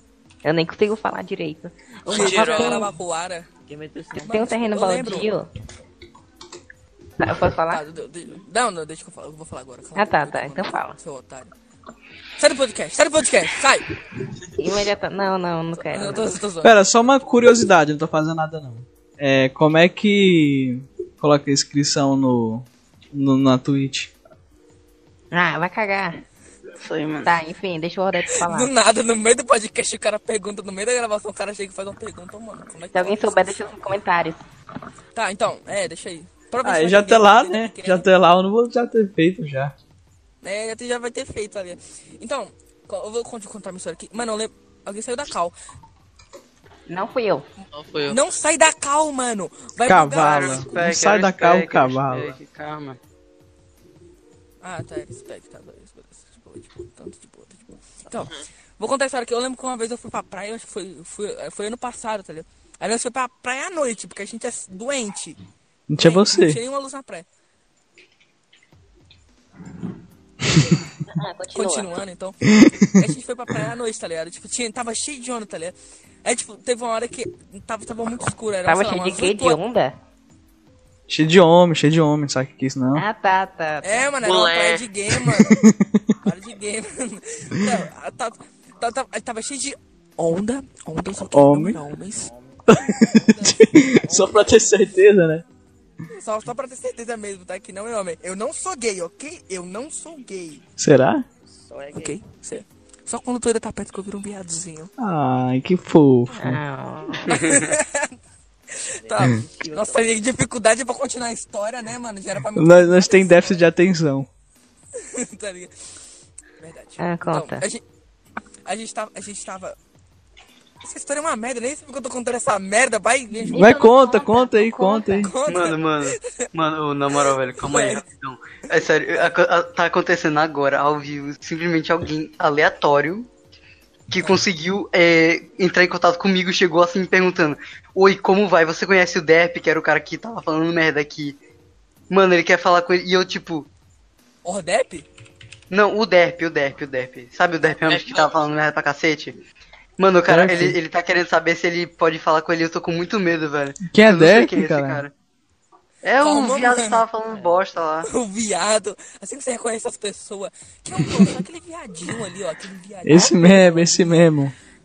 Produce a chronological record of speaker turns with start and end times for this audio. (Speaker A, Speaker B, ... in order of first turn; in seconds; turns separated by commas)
Speaker A: 0.5-2.9, Speaker B: 2.1-3.5, Speaker C: 2.1-2.9, Speaker D: 3.7-4.6, Speaker B: 4.2-5.3, Speaker A: 4.2-5.5, Speaker A: 7.2-7.8, Speaker B: 7.7-11.5, Speaker A: 9.9-11.0, Speaker B: 12.4-13.9, Speaker A: 14.6-16.4, Speaker B: 15.8-16.8, Speaker E: 16.6-24.1, Speaker A: 25.3-26.2, Speaker F: 26.8-27.3, Speaker A: 27.2-28.7, Speaker B: 28.4-33.8, Speaker A: 32.9-34.4, Speaker B: 35.1-38.1, Speaker E: 36.6-39.7, Speaker B: 40.4-45.5, Speaker A: 46.9-47.5, Speaker C: 47.7-48.2, Speaker B: 48.1-50.7, Speaker E: 49.9-52.4, Speaker F: 50.2-53.0, Speaker B: 54.6-65.4, Speaker E: 65.9-66.6, Speaker B: 66.0-67.3, Speaker A: 71.1-71.9, Speaker B: 71.5-79.6, Speaker A: 78.7-80.0, Speaker E: 81.1-83.0, Speaker A: 83.0-84.1, Speaker B: 83.8-85.6, Speaker C: 84.2-84.8, Speaker E: 85.1-86.1, Speaker B: 86.2-92.3, Speaker E: 91.3-91.8, Speaker D: 92.1-92.8, Speaker E: 92.7-95.4, Speaker B: 92.8-94.5, Speaker D: 93.4-94.7, Speaker B: 96.1-100.6, Speaker E: 100.8-101.2, Speaker D: 101.4-102.2, Speaker B: 101.9-104.9, Speaker E: 105.0-106.6, Speaker A: 106.3-107.5, Speaker B: 107.3-108.2, Speaker F: 107.4-107.6, Speaker B: 108.7-113.6, Speaker D: 109.0-110.3, Speaker E: 112.6-114.3, Speaker B: 115.0-115.7, Speaker B: 116.6-117.8, Speaker A: 117.0-117.7, Speaker B: 118.7-119.8, Speaker B: 120.8-123.8, Speaker A: 123.5-125.3, Speaker E: 123.5-125.3, Speaker B: 125.2-126.5, Speaker F: 125.5-133.3, Speaker B: 127.2-128.0, Speaker B: 128.7-129.3, Speaker F: 134.1-141.4, Speaker F: 142.1-143.7, Speaker B: 144.4-145.1, Speaker F: 145.7-149.4, Speaker C: 147.8-148.3, Speaker F: 150.0-155.1, Speaker E: 150.3-150.8, Speaker E: 153.9-155.0, Speaker F: 156.0-158.1, Speaker B: 156.2-157.0, Speaker D: 157.3-157.7, Speaker B: 158.1-164.3, Speaker E: 163.1-164.5